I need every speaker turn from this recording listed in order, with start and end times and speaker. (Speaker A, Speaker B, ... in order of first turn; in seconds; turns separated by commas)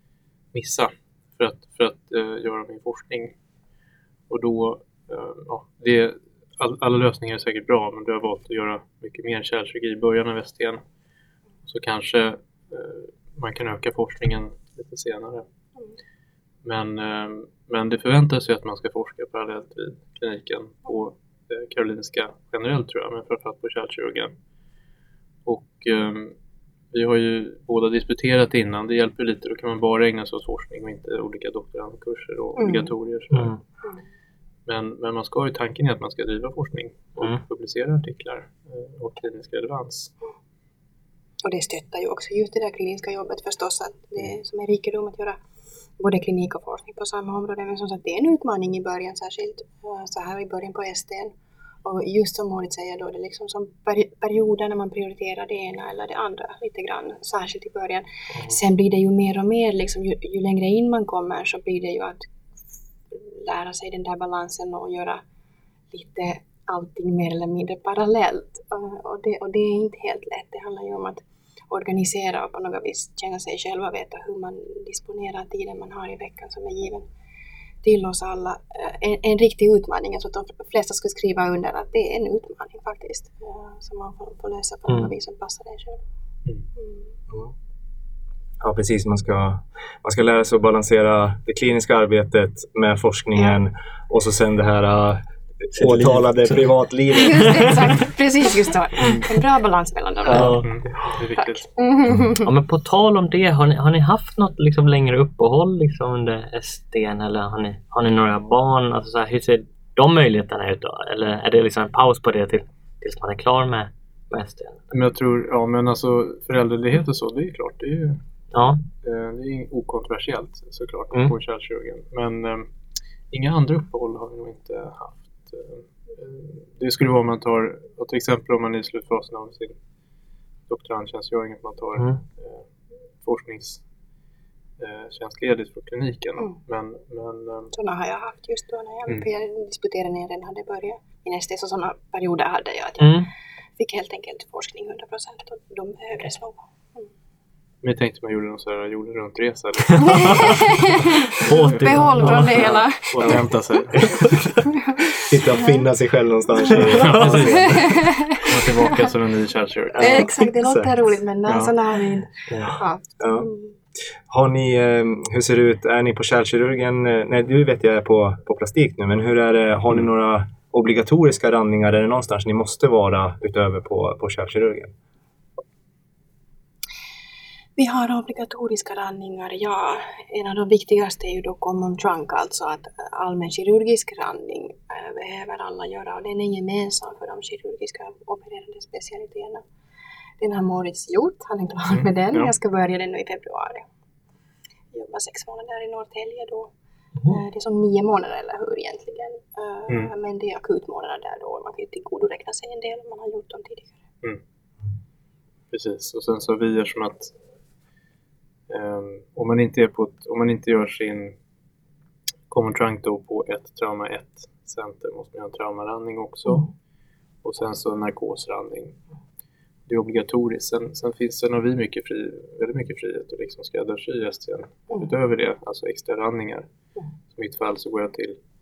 Speaker A: 0.5-3.3, Speaker A: 4.3-10.8, Speaker A: 11.7-15.4, Speaker A: 16.6-24.3, Speaker A: 25.4-26.3, Speaker A: 26.9-33.5, Speaker B: 32.6-32.9, Speaker C: 33.3-33.6, Speaker A: 34.6-40.1, Speaker B: 41.4-45.4, Speaker B: 46.0-62.2, Speaker B: 63.1-65.2, Speaker B: 65.9-77.1, Speaker B: 77.8-86.0, Speaker B: 86.8-87.1, Speaker D: 88.6-97.7, Speaker C: 95.8-96.7, Speaker B: 97.1-100.6, Speaker C: 97.4-97.7, Speaker D: 100.2-100.6, Speaker C: 100.2-100.7, Speaker A: 100.4-101.7, Speaker B: 101.3-102.5, Speaker C: 102.4-114.8, Speaker A: 114.9-118.2, Speaker C: 118.5-118.8, Speaker A: 119.0-122.7, Speaker A: 123.3-129.7, Speaker A: 130.7-132.7, Speaker A: 133.2-133.8, Speaker A: 134.8-137.7, Speaker B: 137.7-143.2, Speaker C: 143.0-143.3, Speaker B: 143.8-147.1, Speaker A: 147.8-150.6, Speaker C: 149.9-150.5, Speaker B: 150.0-153.4, Speaker C: 151.4-152.8, Speaker A: 151.5-154.3, Speaker B: 154.7-155.8, Speaker D: 155.2-158.0, Speaker A: 156.7-160.2, Speaker C: 157.1-157.4, Speaker B: 157.3-158.9, Speaker D: 159.9-160.9, Speaker B: 160.0-163.7, Speaker A: 161.4-161.7, Speaker D: 162.6-163.5, Speaker D: 164.3-174.9, Speaker B: 177.8-189.6, Speaker B: 190.4-193.8, Speaker A: 191.9-192.5, Speaker B: 194.9-196.7, Speaker B: 197.2-204.0, Speaker A: 205.7-207.3, Speaker A: 208.7-211.3, Speaker A: 212.5-216.7, Speaker A: 217.4-219.0, Speaker A: 219.9-226.7, Speaker A: 227.3-228.4